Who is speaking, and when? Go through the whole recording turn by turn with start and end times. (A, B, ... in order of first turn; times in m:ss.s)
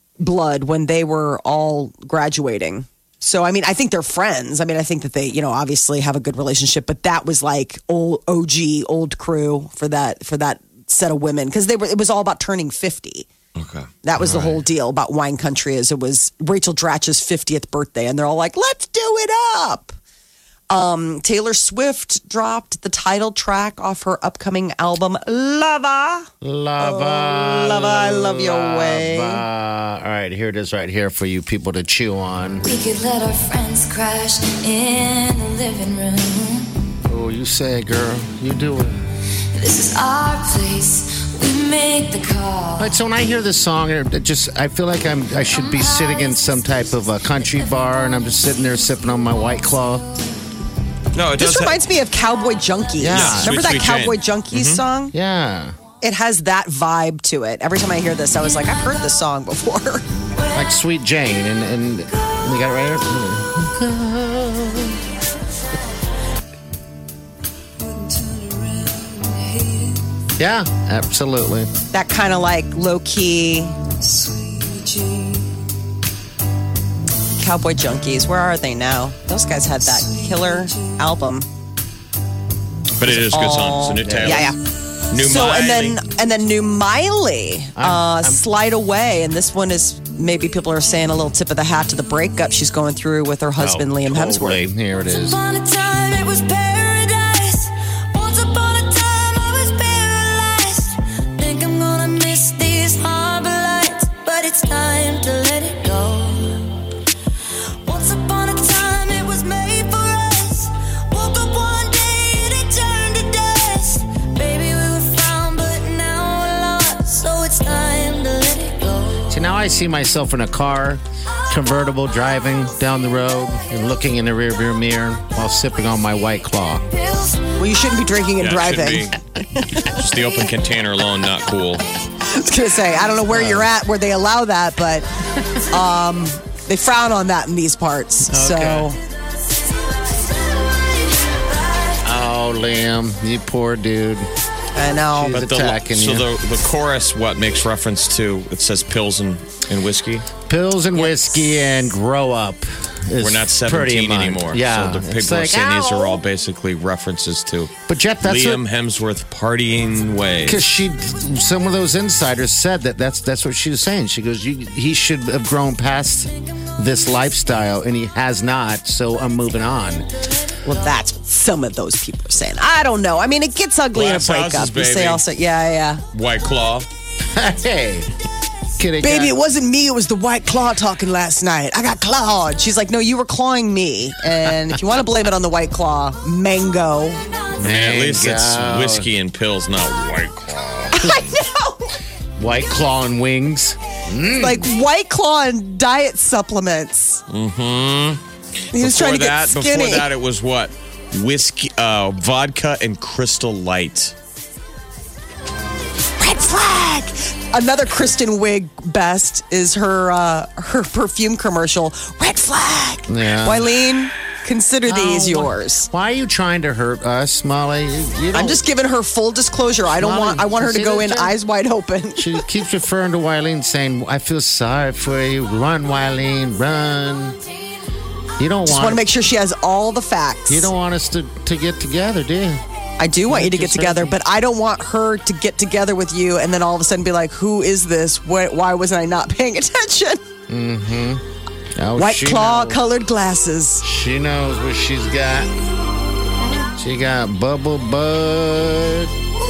0:00.2-0:13.3 A
0:13.5-0:13.9 B
0:14.0-0:20.0 A
0:14.2-0:14.6 C
0:20.7-0:29.4 A
0:26.4-0:32.6 C
0:32.6-0:36.9 D
0:37.0-0:39.0 C
0:39.5-0:43.0 D
0:42.8-0:50.1 C
0:45.6-0:46.4 D
0:51.1-0:51.8 B
0:51.4-0:55.1 A
0:53.0-0:53.5 C
0:53.1-0:54.8 B
0:55.1-0:55.8 C
0:56.0-1:00.0 A
1:00.5-1:05.0 C
1:07.8-1:10.0 D
1:10.4-1:11.7 C
1:11.9-1:13.8 A
1:14.0-1:15.5 D
1:17.3-1:21.5 A
1:23.0-1:24.5 B
1:23.0-1:24.6 A
1:24.0-1:24.5 C
1:25.1-1:26.0 B
1:25.1-1:34.6 A
1:27.8-1:28.4 C
1:33.6-1:35.4 C
1:35.1-1:46.8 D
1:47.8-1:59.3 D
1:59.3-2:06.8 C
2:07.0-2:07.5 D
2:07.6-2:09.9 A
2:08.4-2:09.1 B
2:09.7-2:11.8 B
2:12.2-2:15.1 A
2:13.3-2:13.7 C
2:15.6-2:19.0 A
2:18.3-2:18.9 C
2:22.0-2:24.3 C
2:24.7-2:25.4 A
2:25.1-2:26.3 C
2:25.3-2:30.3 B
2:30.5-2:36.2 C
2:33.2-2:40.6 B
2:37.9-2:38.6 C
2:40.4-2:50.1 C
2:50.6-2:56.0 A
2:53.9-2:55.2 B
2:56.1-2:56.9 B
2:57.3-2:58.1 C
2:58.8-2:59.4 C
2:59.0-3:07.2 A
3:07.6-3:09.1 C
3:07.6-3:11.3 B
3:11.0-3:11.7 A
3:12.4-3:14.7 C
3:14.4-3:17.2 A
3:17.3-3:18.2 B
3:18.7-3:20.1 A
3:18.7-3:24.1 B
3:26.2-3:35.9 A
3:33.1-3:33.7 C
3:34.8-3:38.6 C
3:38.3-3:42.4 A
3:39.9-3:41.3 C
3:42.2-3:47.4 C
3:48.4-3:49.0 C
3:48.6-3:50.7 A
3:50.5-3:52.6 C
3:53.0-4:00.2 A
3:53.3-3:54.2 C
4:00.5-4:01.2 C
4:01.8-4:02.8 C
4:02.0-4:03.8 A
4:03.8-4:05.6 C
4:06.7-4:09.1 C